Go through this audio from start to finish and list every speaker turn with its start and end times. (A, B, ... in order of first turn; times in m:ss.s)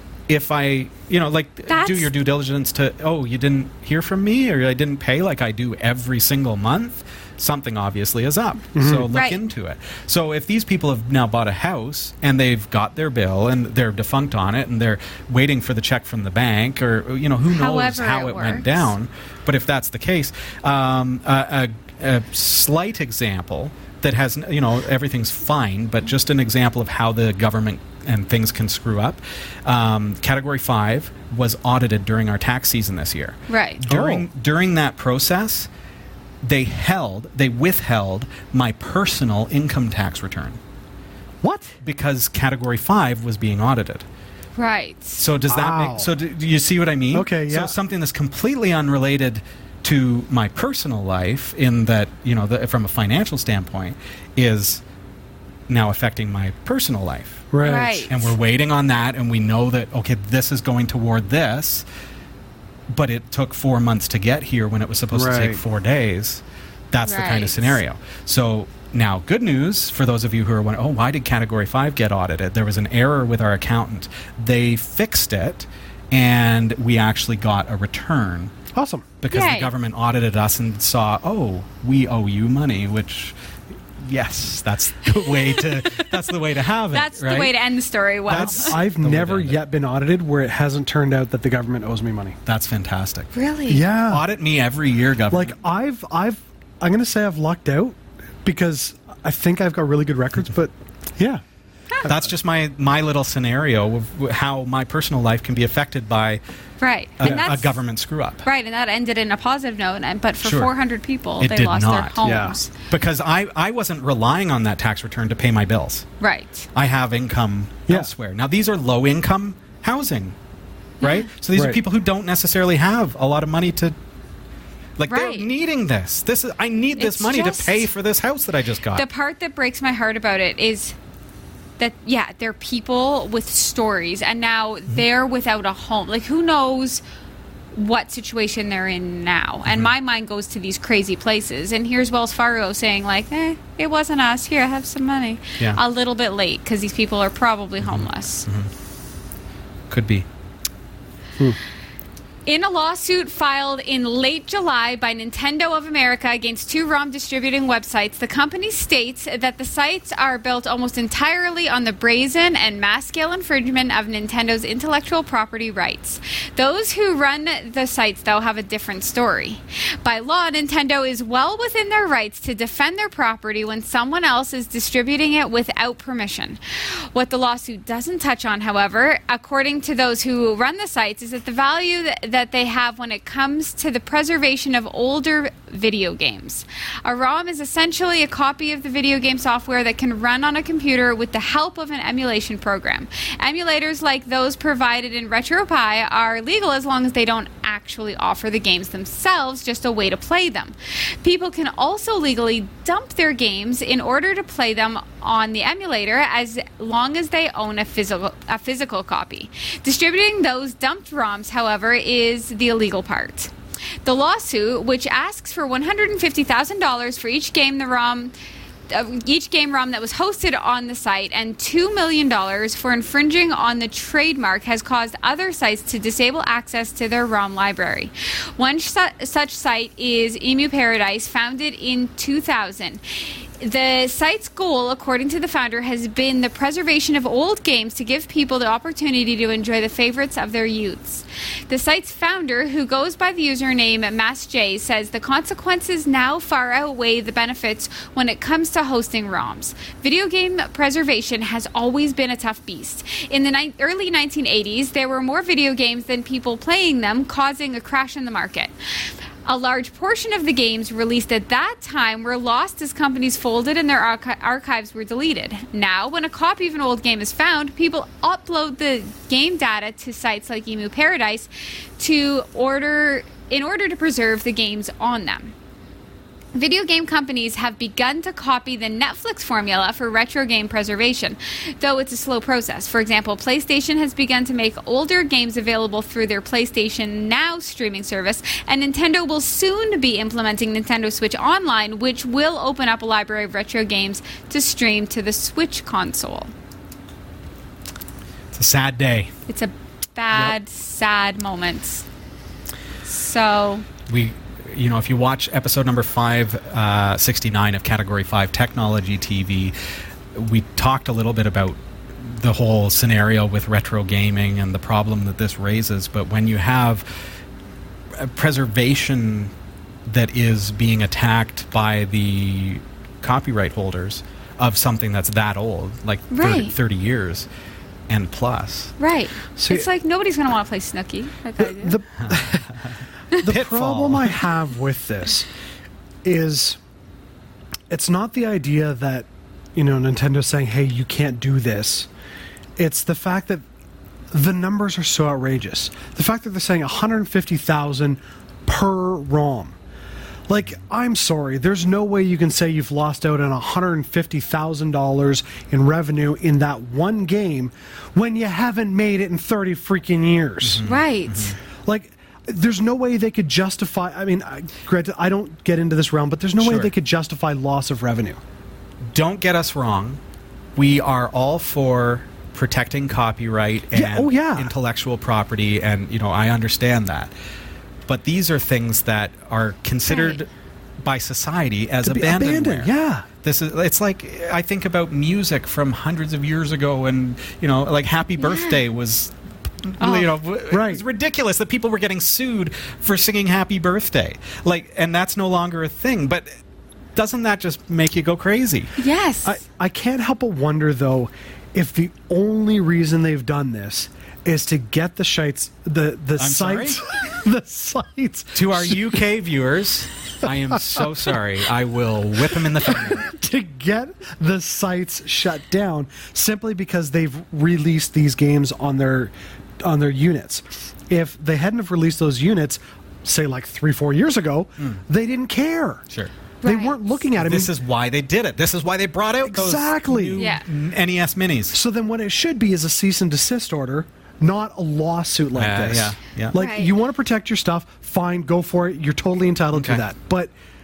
0:00.3-0:35.7 A
0:01.7-0:02.1 B
0:08.8-0:09.1 C
0:09.1-0:09.4 B
0:17.5-0:18.9 B
0:33.5-0:33.8 B
0:33.8-0:34.3 C
0:36.4-0:40.6 A
0:41.4-0:41.8 C
0:41.8-0:44.0 A
0:44.6-0:45.2 B
0:45.2-0:54.8 A
0:45.5-0:46.1 C
0:47.1-0:47.8 C
0:55.7-0:57.5 A
0:57.5-0:58.1 C
0:57.6-0:58.3 B
0:58.1-1:01.8 A
1:02.9-1:18.5 A
1:05.1-1:05.6 C
1:07.0-1:07.8 B
1:18.7-1:19.1 C
1:19.2-1:23.4 A
1:19.3-1:19.7 B
1:24.0-1:27.5 A
1:25.3-1:26.1 B
1:26.9-1:28.8 B
1:28.3-1:29.6 A
1:28.3-1:32.4 C
1:32.5-1:33.3 A
1:33.3-1:33.8 B
1:33.7-1:34.2 C
1:34.1-1:35.6 A
1:35.3-1:41.4 C
1:42.0-1:46.4 A
1:46.8-1:47.8 B
1:47.2-1:48.5 A
1:48.4-1:52.7 B
1:50.4-1:50.7 A
1:51.4-1:52.2 A
1:52.2-1:52.6 C
1:52.9-1:56.1 A
1:56.2-1:56.7 B
1:56.7-2:00.4 A
2:01.0-2:04.0 A
2:01.0-2:01.3 B
2:01.5-2:01.8 C
2:05.0-2:09.0 A
2:05.1-2:05.5 B
2:07.0-2:07.9 B
2:09.0-2:11.0 B
2:11.8-2:17.0 B
2:17.7-2:28.5 B
2:27.8-2:28.7 A
2:29.9-2:30.3 A
2:32.5-3:33.5 B
3:34.0-3:38.3 B
3:38.9-4:18.7 B
4:19.4-4:35.5 B
4:36.5-4:56.5 B
4:58.5-4:59.3 A
4:59.5-5:02.0 B
5:03.0-5:03.9 B
5:04.1-5:09.8 A
5:10.3-5:17.3 A
5:18.2-5:19.5 A
5:20.1-5:27.5 A
5:26.3-5:26.7 B
5:28.1-5:29.0 A
5:29.0-5:32.0 B
5:29.6-5:29.9 C
5:31.6-5:32.7 C
5:32.2-5:32.9 A
5:33.4-5:35.5 C
5:33.4-5:34.4 A
5:36.2-5:36.8 C
5:37.9-5:42.1 C
5:42.8-5:43.6 C
5:44.3-5:49.8 C
5:50.5-6:00.8 C
6:00.6-6:01.6 A
6:00.8-6:01.6 B
6:01.9-6:08.4 C
6:06.6-6:06.9 A
6:09.1-6:10.2 A
6:10.8-6:17.3 A
6:13.9-6:14.7 C
6:18.1-6:20.5 A
6:20.1-6:20.4 B
6:21.0-6:22.9 A
6:22.0-6:23.3 C
6:23.4-6:36.6 A
6:28.4-6:28.8 B
6:30.0-6:30.3 B
6:30.7-6:31.0 C
6:37.2-6:38.9 A
6:39.0-6:39.6 B
6:39.4-6:49.2 C
6:46.4-6:47.0 A
6:48.6-6:53.3 A
6:52.9-7:06.0 C
7:06.6-7:07.0 B
7:06.6-7:07.7 C
7:07.4-7:11.8 A
7:09.4-7:10.4 C
7:10.4-7:10.6 B
7:11.7-7:20.5 C
7:15.6-7:16.6 A
7:16.5-7:16.9 B
7:19.7-7:20.0 A